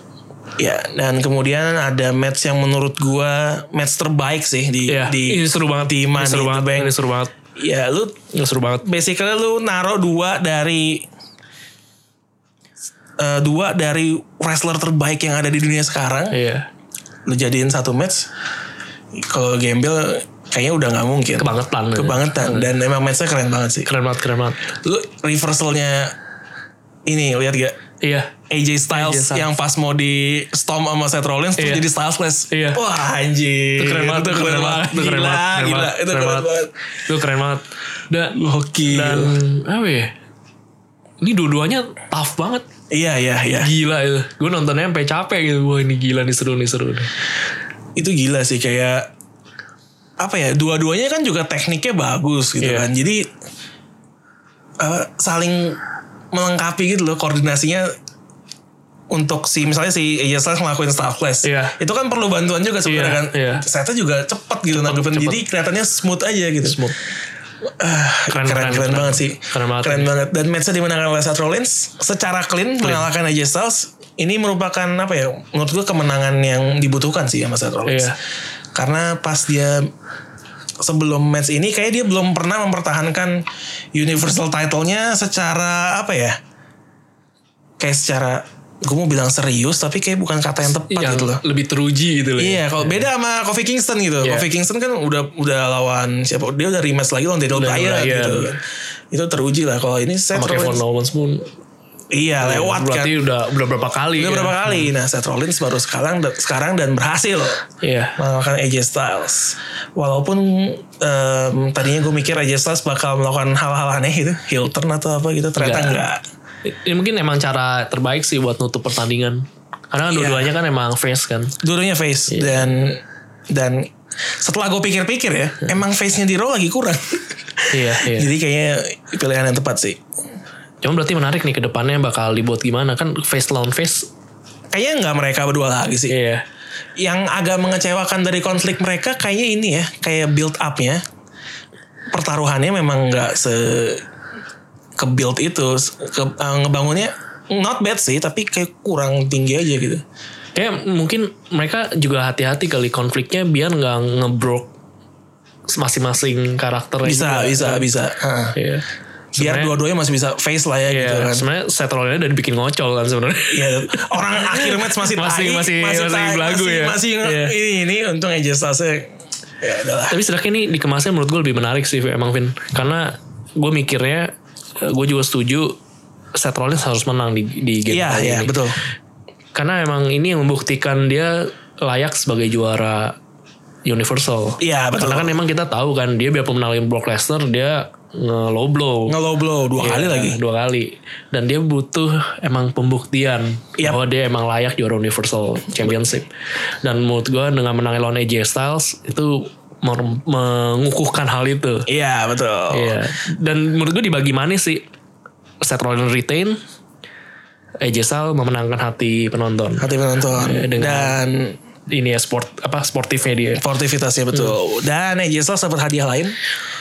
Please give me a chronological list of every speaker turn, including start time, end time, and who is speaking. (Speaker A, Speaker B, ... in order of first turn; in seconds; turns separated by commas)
Speaker A: 0.6-6.9, Speaker B: 4.9-7.3, Speaker A: 7.5-8.2, Speaker B: 8.3-8.8, Speaker A: 8.8-11.1, Speaker A: 13.2-16.4, Speaker B: 16.3-16.7, Speaker A: 17.3-18.3, Speaker A: 19.1-23.9, Speaker B: 21.4-22.7, Speaker B: 23.9-24.6, Speaker A: 24.7-26.1, Speaker A: 27.1-27.8, Speaker B: 28.0-28.3, Speaker A: 28.5-36.7, Speaker B: 28.9-29.5, Speaker B: 31.6-31.9, Speaker B: 32.5-32.8, Speaker B: 33.8-36.5, Speaker B: 37.0-38.4, Speaker A: 38.3-39.4, Speaker B: 38.9-40.1, Speaker B: 41.2-42.6, Speaker A: 42.9-43.7, Speaker B: 43.6-47.1, Speaker A: 48.0-49.1, Speaker A: 50.2-53.3, Speaker B: 52.6-52.9, Speaker A: 54.8-55.8, Speaker A: 56.3-57.9, Speaker A: 59.1-66.8, Speaker B: 61.4-61.8, Speaker B: 62.8-63.6, Speaker B: 64.7-65.5, Speaker B: 66.6-67.0, Speaker A: 67.8-78.1, Speaker B: 68.3-70.1, Speaker B: 72.8-73.1, Speaker B: 77.9-78.2, Speaker A: 78.7-79.9, Speaker A: 80.8-86.4, Speaker A: 87.8-91.4, Speaker B: 90.9-93.0, Speaker A: 92.4-98.6, Speaker B: 94.2-94.5, Speaker B: 97.5-98.5, Speaker A: 99.1-100.8, Speaker B: 100.3-101.5, Speaker A: 102.1-103.2, Speaker B: 102.4-104.9, Speaker A: 104.2-107.6, Speaker B: 107.8-108.2, Speaker A: 108.2-116.2, Speaker B: 115.6-116.0, Speaker B: 116.6-121.5, Speaker A: 120.1-120.5, Speaker A: 121.6-130.0, Speaker B: 122.3-122.7, Speaker B: 127.7-128.3, Speaker B: 130.8-134.1, Speaker A: 134.7-136.2, Speaker B: 136.1-136.4, Speaker A: 137.0-141.0, Speaker A: 142.1-144.0, Speaker A: 145.0-150.0, Speaker B: 150.5-154.7, Speaker B: 155.7-157.9, Speaker A: 157.0-158.6, Speaker B: 158.5-158.8, Speaker B: 159.4-159.8, Speaker A: 159.4-161.4, Speaker B: 160.9-167.5, Speaker A: 163.5-169.1, Speaker A: 169.6-170.2, Speaker B: 170.1-175.8, Speaker B: 176.3-178.6, Speaker A: 177.9-178.8, Speaker B: 179.5-183.1, Speaker B: 183.8-189.2, Speaker A: 184.6-185.4, Speaker A: 189.1-190.4, Speaker B: 189.8-196.3, Speaker B: 196.8-201.9, Speaker A: 201.9-203.0, Speaker B: 202.7-204.9, Speaker B: 205.6-206.6, Speaker B: 207.8-211.2, Speaker A: 209.8-211.6, Speaker B: 211.9-213.6, Speaker A: 213.6-216.3